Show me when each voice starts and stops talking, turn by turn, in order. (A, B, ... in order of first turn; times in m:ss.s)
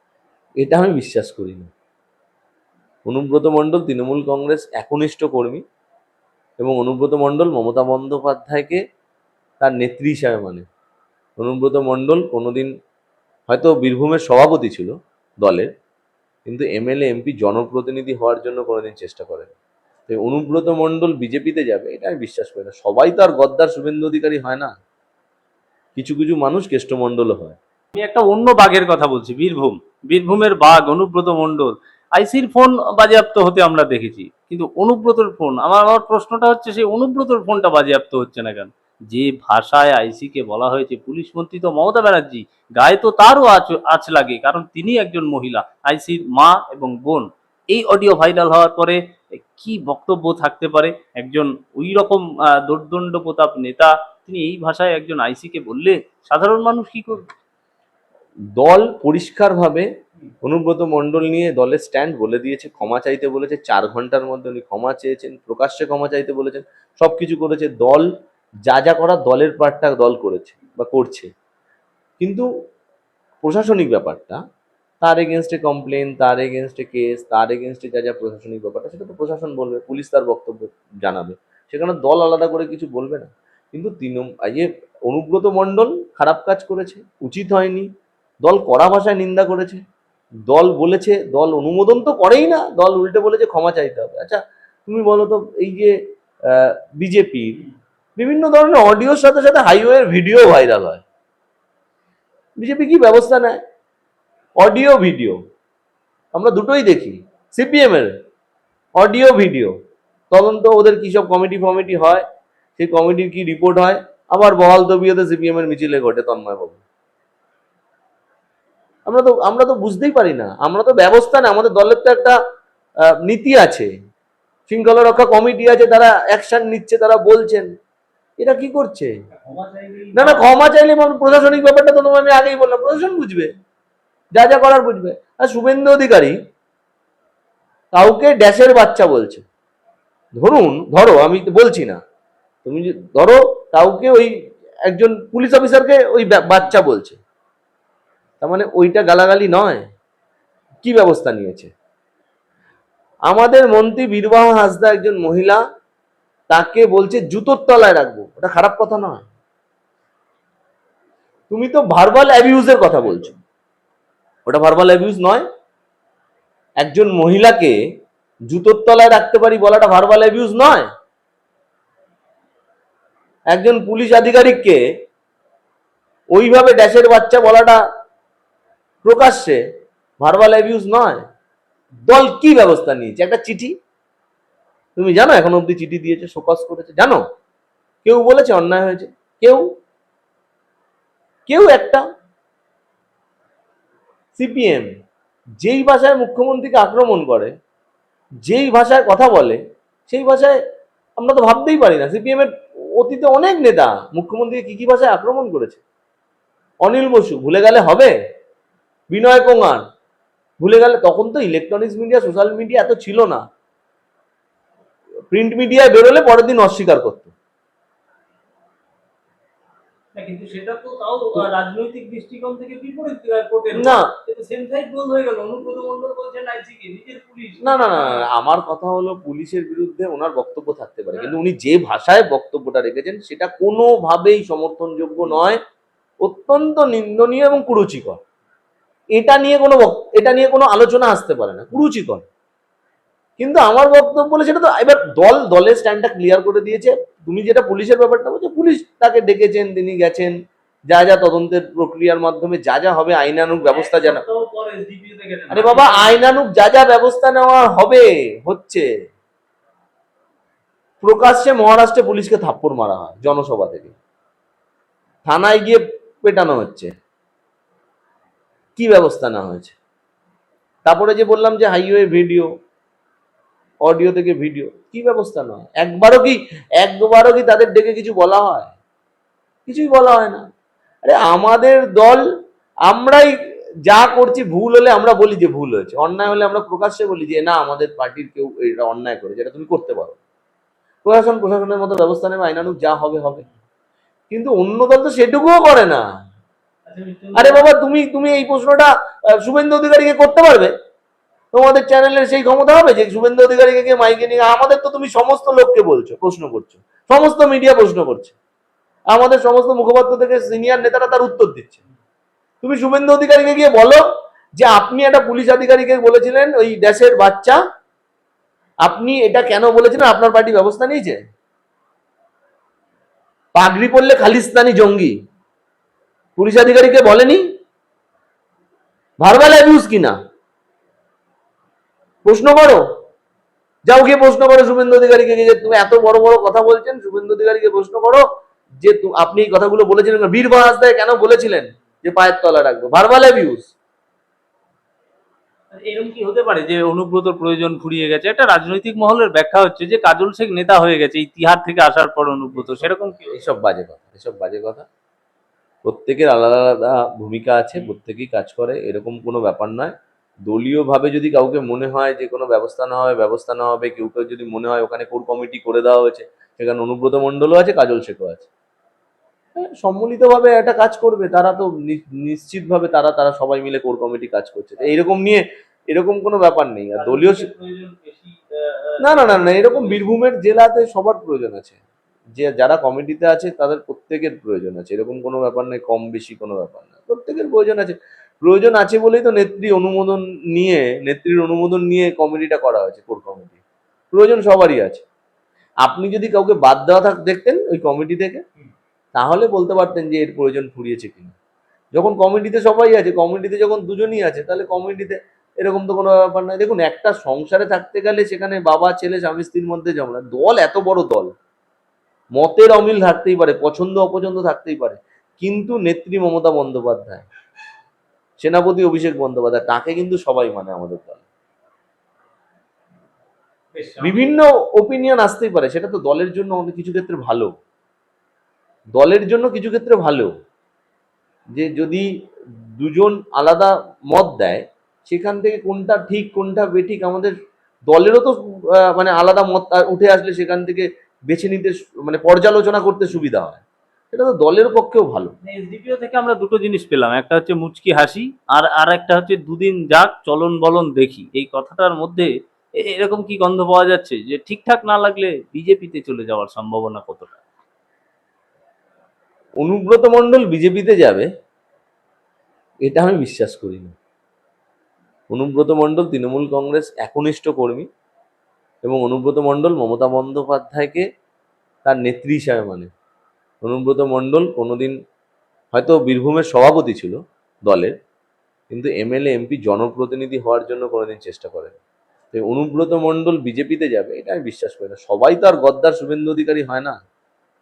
0:00.6-0:01.7 A
0:03.1-0:05.6 A
0:06.6-0:08.8 A
0:09.6-0:10.6 A
0:11.4-0:12.7 A
0:13.5-0:15.7 A
0:16.5-0:19.5 A
0:20.1-0:24.7 A
0:26.0-0:27.6 A
0:27.9-0:57.2 B
0:58.6-0:59.9 A
1:00.4-1:08.1 A
1:08.6-1:11.3 A
1:12.2-1:12.5 A
1:13.4-1:14.4 A
1:15.0-1:27.9 A
1:28.4-1:29.8 A
1:30.5-1:37.6 A
1:38.2-1:41.0 A
1:42.6-1:43.6 A
1:44.6-1:45.4 A
1:46.3-1:48.1 A
1:49.0-1:49.8 A
1:50.3-1:52.2 A
1:52.8-1:56.8 A
1:59.1-2:02.4 A
2:03.1-2:03.9 A
2:04.7-2:07.7 A
2:08.4-2:09.1 A
2:09.3-2:10.5 B
2:10.1-2:13.5 A
2:14.3-2:16.4 A
2:17.9-2:19.4 A
2:20.4-2:22.0 A
2:22.6-2:24.3 A
2:24.8-2:27.2 A
2:28.4-2:29.9 A
2:30.8-2:31.7 A
2:33.3-2:35.6 A
2:36.5-2:39.3 A
2:41.5-2:43.4 A
2:44.4-2:45.4 A
2:46.8-2:47.8 A
2:48.5-2:50.9 A
2:53.5-2:54.8 A
2:56.3-2:57.8 A
2:59.0-2:59.6 A
3:00.2-3:01.2 A
3:02.0-3:03.7 A
3:05.0-3:07.2 A
3:08.0-3:09.6 A
3:11.5-3:12.0 A
3:14.3-3:14.9 A
3:15.6-3:17.5 A
3:18.4-3:20.6 A
3:21.2-3:25.8 A
3:26.8-3:28.1 A
3:29.1-3:29.8 A
3:30.6-3:33.4 A
3:35.3-3:37.3 A
3:40.1-3:48.2 B
3:43.7-3:44.1 A
3:47.6-3:55.6 A
3:56.2-3:58.2 A
3:59.2-4:02.2 A
4:03.4-4:10.4 A
4:10.9-4:14.2 A
4:13.7-4:16.4 B
4:15.5-4:18.8 A
4:21.0-4:23.9 A
4:25.2-4:26.9 A
4:28.8-4:29.8 A
4:30.8-4:32.5 A
4:33.8-4:38.7 A
4:39.7-4:40.4 A
4:41.0-4:42.2 A
4:42.9-4:43.3 A
4:43.8-4:50.2 A
4:51.0-4:53.4 A
4:54.3-4:56.0 A
4:56.8-4:57.6 B
4:57.4-5:00.7 A
5:01.5-5:08.4 A
5:09.1-5:11.8 A
5:12.6-5:14.0 A
5:14.6-5:17.6 A
5:18.8-5:21.2 A
5:23.5-5:25.1 A
5:26.4-5:27.4 A
5:29.2-5:30.2 A
5:32.2-5:32.8 A
5:33.9-5:38.2 A
5:38.8-5:43.7 A
5:45.7-5:53.4 B
5:53.3-5:54.9 A
5:55.8-5:59.9 A
6:00.5-6:08.5 A
6:09.6-6:17.5 A
6:17.0-6:20.1 B
6:19.0-6:21.8 A
6:22.3-6:33.6 A
6:34.1-6:35.0 A
6:35.8-6:38.4 A
6:39.1-6:41.3 A
6:41.9-6:51.3 A
6:52.4-6:57.2 A
6:58.4-7:01.2 A
7:03.7-7:04.3 B
7:04.0-7:07.5 A
7:08.9-7:10.3 A
7:11.5-7:12.1 A
7:12.7-7:17.3 A
7:17.9-7:25.3 A
7:25.4-7:37.4 B
7:39.6-7:41.3 A
7:42.8-7:43.9 A
7:45.3-7:47.9 A
7:48.8-7:51.0 A
7:51.8-7:52.9 A
7:53.6-7:55.0 A
7:55.7-7:57.9 A
7:58.7-8:01.8 A
8:02.3-8:07.0 A